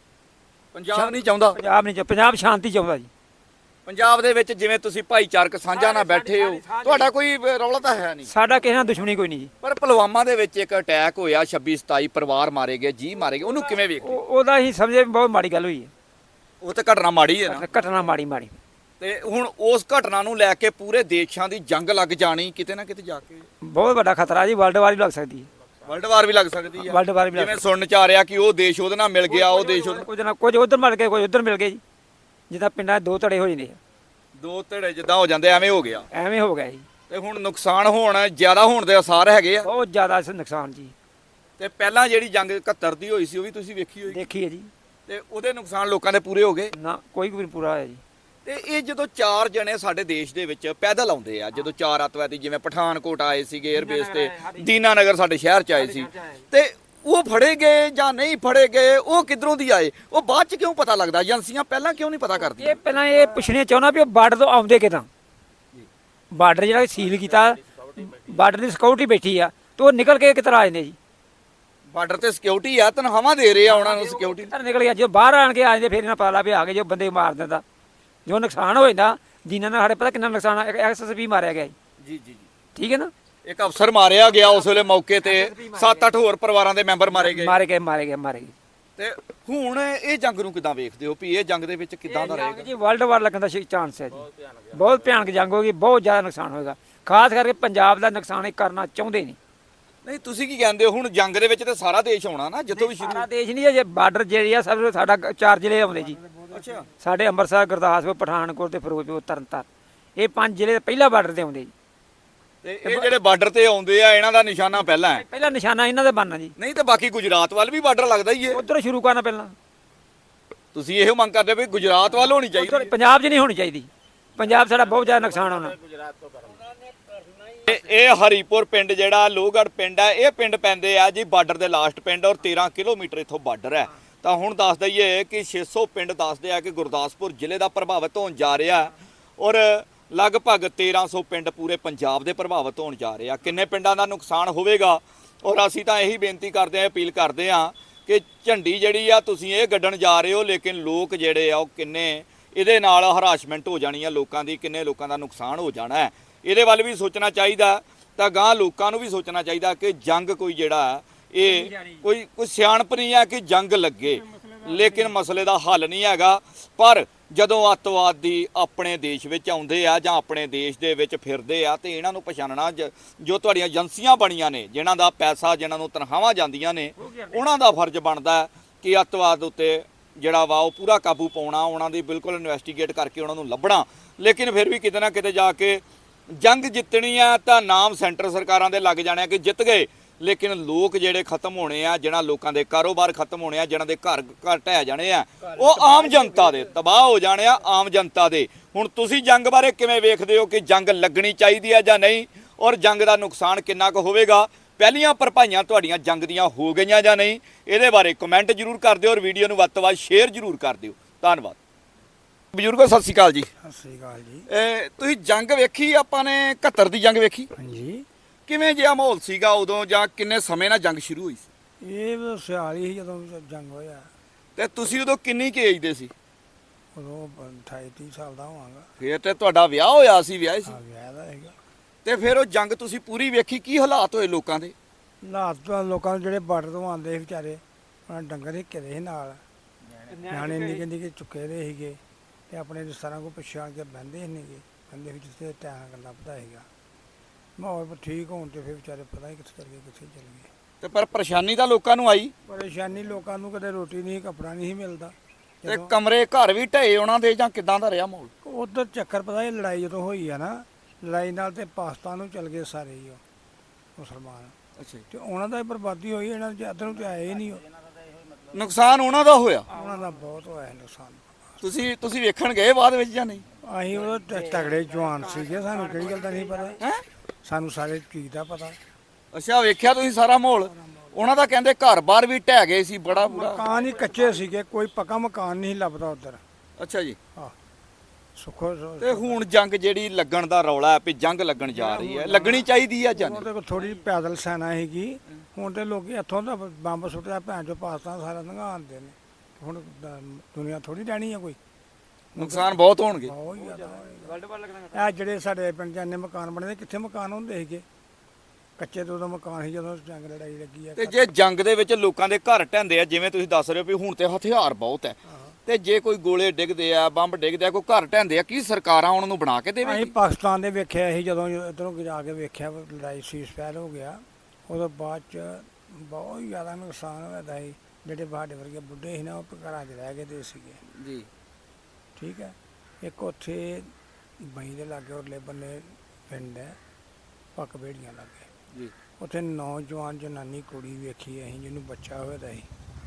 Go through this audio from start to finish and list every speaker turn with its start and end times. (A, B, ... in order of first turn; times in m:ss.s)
0:00.7-0:01.6 A
0:00.9-0:03.1 B
0:03.9-0:08.3 A
0:05.7-0:07.1 B
0:08.3-0:09.5 B
0:09.6-0:14.2 A
0:13.3-0:15.9 B
0:16.6-0:17.7 A
0:17.5-0:18.6 B
0:19.0-0:23.4 A
0:23.6-0:25.5 B
0:25.9-0:30.1 A
0:26.8-0:27.6 B
0:29.3-0:31.8 B
0:32.5-0:33.8 B
0:34.4-0:36.1 A
0:36.1-0:36.9 B
0:37.1-0:39.7 A
0:39.6-0:40.9 B
0:41.6-0:44.2 A
0:44.1-0:44.7 B
0:45.1-0:46.7 A
0:46.7-0:48.0 B
0:48.4-1:02.8 A
0:53.7-0:54.7 B
0:55.8-0:56.4 B
1:02.4-1:05.1 B
1:06.3-1:11.0 B
1:11.9-1:14.5 A
1:13.6-1:17.6 B
1:18.3-1:21.8 B
1:22.0-1:22.5 A
1:22.8-1:23.1 B
1:23.5-1:27.6 A
1:25.2-1:26.2 B
1:27.1-1:28.5 B
1:29.0-1:32.7 A
1:32.1-1:39.4 B
1:40.0-1:43.3 A
1:42.7-1:46.2 B
1:46.5-1:46.9 A
1:47.0-1:49.7 B
1:50.2-1:51.7 B
1:52.6-1:55.2 A
1:52.8-1:53.1 B
1:55.1-1:56.6 B
1:56.6-1:58.6 A
1:58.5-1:59.6 B
2:00.7-2:02.9 A
2:02.5-2:05.8 B
2:07.6-3:31.6 A
2:41.4-2:42.0 B
2:44.7-2:45.1 B
2:57.0-2:57.4 B
3:15.4-3:16.7 B
3:32.5-3:33.5 A
3:33.6-3:34.5 C
3:34.5-3:37.5 A
3:37.6-3:38.0 C
3:38.5-3:41.5 A
3:41.8-3:44.1 C
3:44.6-3:46.1 A
3:46.9-3:48.9 C
3:49.0-3:50.8 A
3:50.7-3:51.6 C
3:52.0-3:54.7 A
3:55.2-3:59.4 C
4:00.1-4:00.8 B
4:00.3-4:06.7 C
4:07.6-4:10.5 C
4:10.8-4:12.3 A
4:12.5-4:16.0 C
4:15.7-4:18.3 A
4:18.4-4:23.2 C
4:24.0-4:24.6 C
4:24.8-4:25.0 A
4:25.1-4:27.6 C
4:28.5-4:29.7 A
4:29.7-4:30.1 B
4:29.7-4:31.6 C
4:31.6-4:33.4 A
4:33.6-4:36.8 C
4:34.3-4:36.8 B
4:37.4-4:38.8 C
4:39.3-4:43.6 A
4:40.7-4:41.2 C
4:43.1-4:46.4 C
4:43.6-4:44.3 B
4:46.8-4:47.2 A
4:48.4-4:49.4 C
4:49.0-4:53.5 A
4:51.7-5:01.6 C
5:02.3-5:04.4 C
5:02.4-5:03.3 A
5:03.6-5:05.1 B
5:04.9-5:07.8 C
5:08.8-5:11.3 C
5:11.0-5:20.2 A
5:15.3-5:15.6 C
5:19.8-5:30.8 C
5:30.9-5:31.3 A
5:32.2-5:36.8 C
5:37.6-5:38.5 C
5:39.2-5:42.7 C